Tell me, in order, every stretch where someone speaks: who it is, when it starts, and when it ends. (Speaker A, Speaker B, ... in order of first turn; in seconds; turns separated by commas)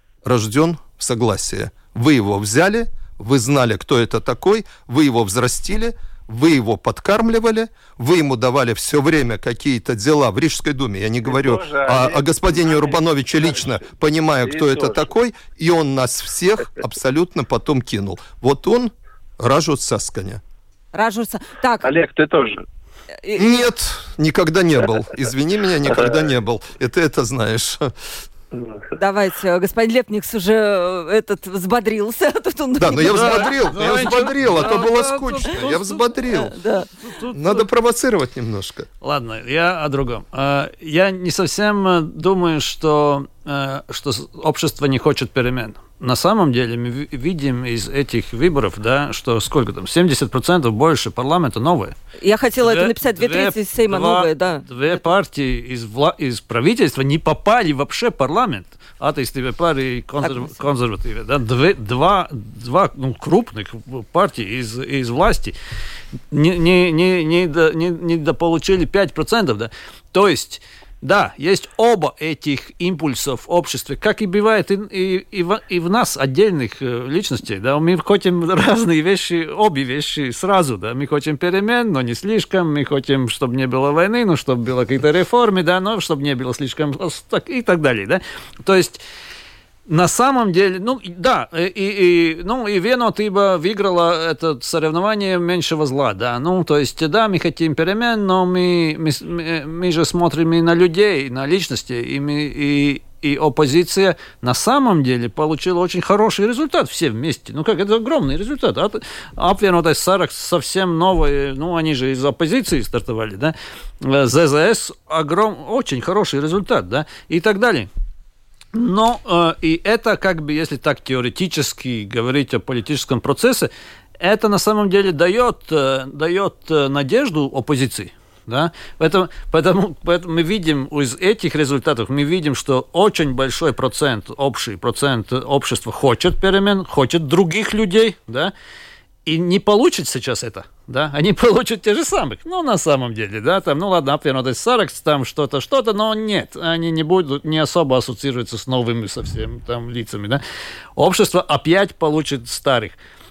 Speaker A: 0.2-20.4, Speaker B: 11.3-13.8, Speaker B: 14.4-15.0, Speaker C: 20.9-21.9, Speaker B: 21.8-22.6, Speaker C: 23.2-23.7, Speaker A: 23.4-27.9, Speaker B: 28.5-28.8, Speaker C: 28.9-34.0, Speaker A: 32.8-36.5, Speaker D: 33.0-36.1, Speaker C: 36.3-36.9, Speaker D: 37.0-37.6, Speaker A: 37.3-38.9, Speaker D: 39.0-51.9, Speaker C: 52.2-54.7, Speaker D: 52.6-65.5, Speaker C: 60.2-60.6, Speaker D: 66.3-89.0, Speaker D: 89.9-117.9, Speaker D: 118.7-138.5, Speaker D: 139.3-150.4, Speaker D: 151.0-153.0